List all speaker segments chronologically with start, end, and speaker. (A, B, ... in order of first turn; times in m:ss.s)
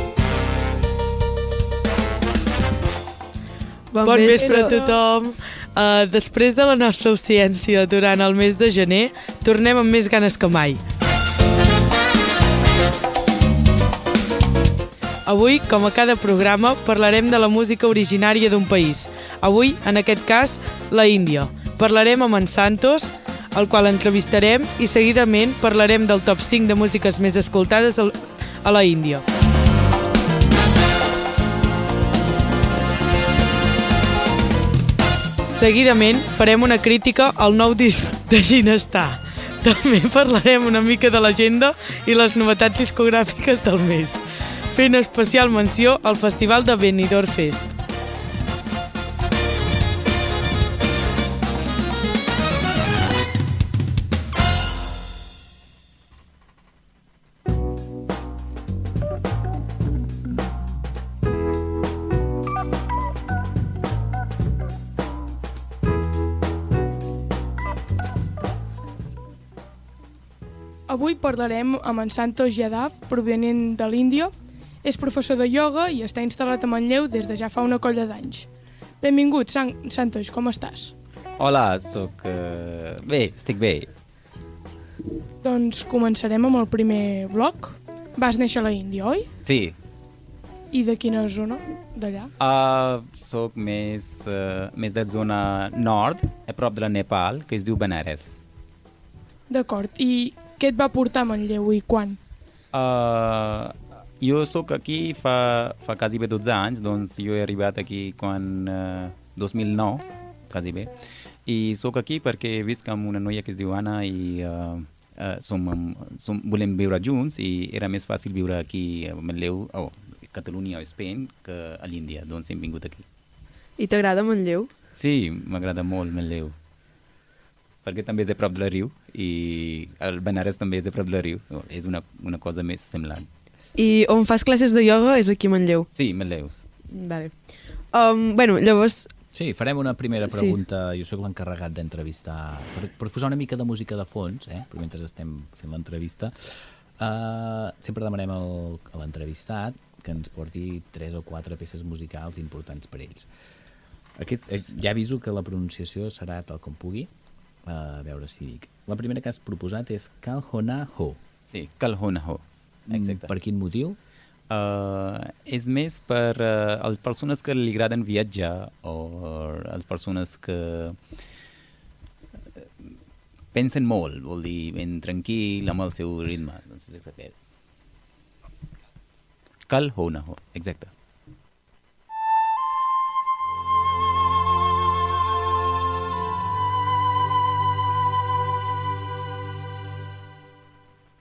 0:03.9-0:04.8 A
0:04.0-0:10.8 B
0:04.3-0:05.0 C
0:15.2-0:29.2 B
0:35.4-0:44.2 B
0:44.7-0:47.7 B
1:10.9-1:14.3 C
1:14.8-1:18.5 C
1:19.0-1:20.9 C
1:21.4-1:23.9 D
1:25.4-1:29.3 C
1:29.4-1:29.8 D
1:30.7-1:32.3 C
1:32.4-1:38.4 D
1:39.5-1:42.2 C
1:42.7-1:50.9 D
1:51.4-2:03.0 D
2:03.8-2:04.7 A
2:04.9-2:06.5 D
2:07.8-2:13.2 D
2:13.8-2:15.9 A
2:15.9-2:16.5 D
2:16.9-2:17.3 A
2:17.9-2:19.1 A
2:19.3-2:33.3 E
2:20.3-2:20.6 A
2:34.2-2:37.1 E
2:37.6-2:41.2 E
2:41.5-2:43.3 D
2:42.9-2:44.0 E
2:44.5-2:51.0 D
2:53.5-2:57.3 D
2:59.7-3:00.9 D